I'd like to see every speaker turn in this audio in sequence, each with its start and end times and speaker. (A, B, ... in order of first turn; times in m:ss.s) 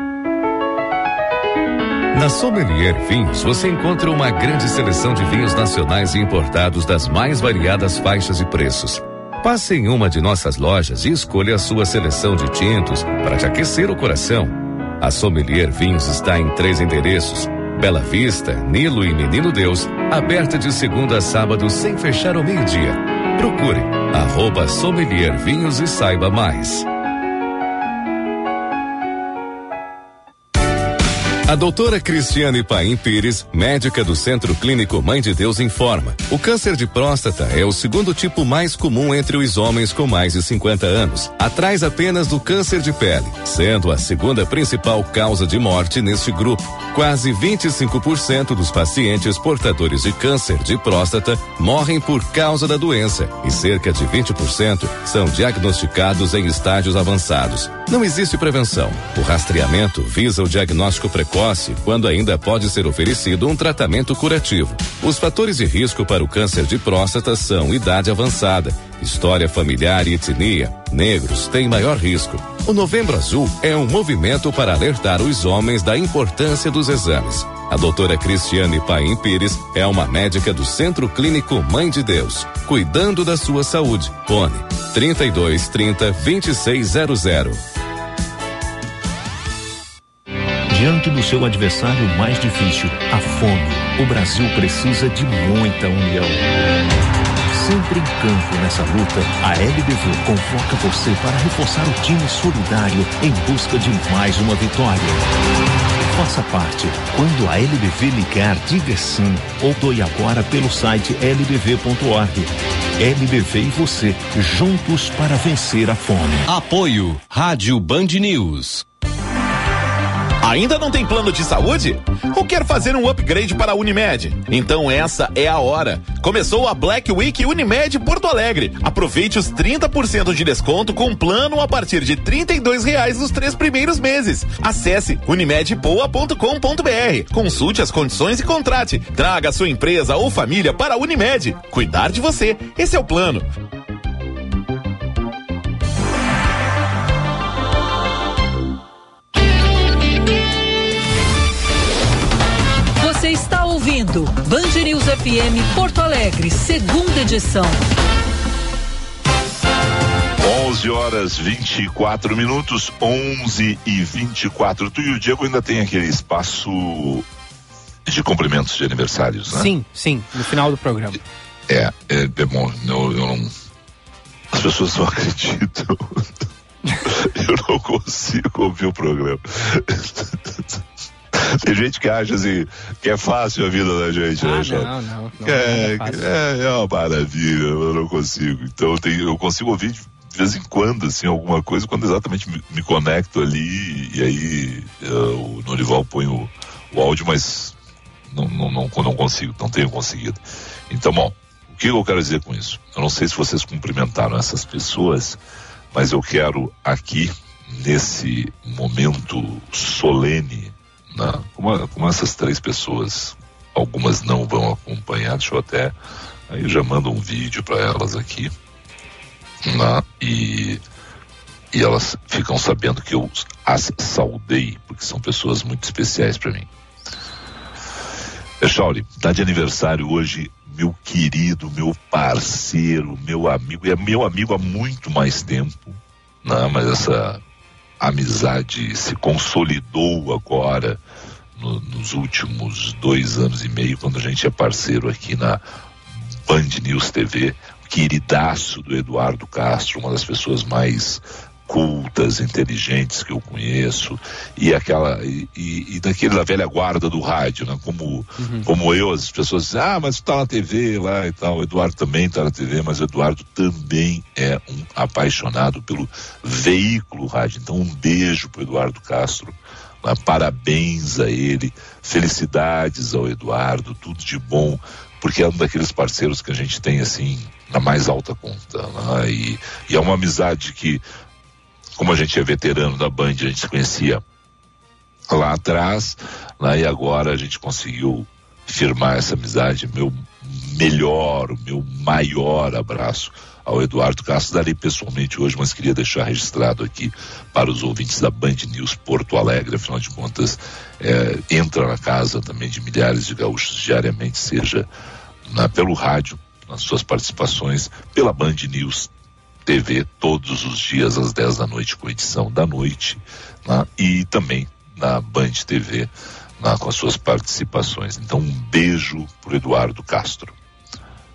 0:02.1-0:26.9 A
0:31.5-1:27.6 A
1:30.7-1:36.5 B
1:37.5-1:45.2 B
1:46.0-1:56.4 B
1:56.4-1:58.8 C
2:00.4-2:23.4 D
2:33.0-2:37.8 E
2:40.4-2:47.3 F
2:48.0-2:49.7 F
2:49.5-2:51.2 G
2:51.7-2:53.5 F
2:54.5-2:56.3 F
2:57.0-3:17.8 F
3:04.4-3:06.3 G
3:18.3-3:25.4 F
3:25.9-3:36.0 F
3:36.5-3:38.5 F
3:39.6-3:40.8 F
3:41.7-3:46.7 F
3:48.6-3:57.4 F
3:58.0-4:01.0 F
4:01.6-4:05.6 F
4:06.4-4:41.0 F
4:18.4-4:18.7 G
4:42.0-4:44.2 F
4:45.3-5:04.9 F
5:05.5-5:09.1 F
5:09.6-5:20.6 F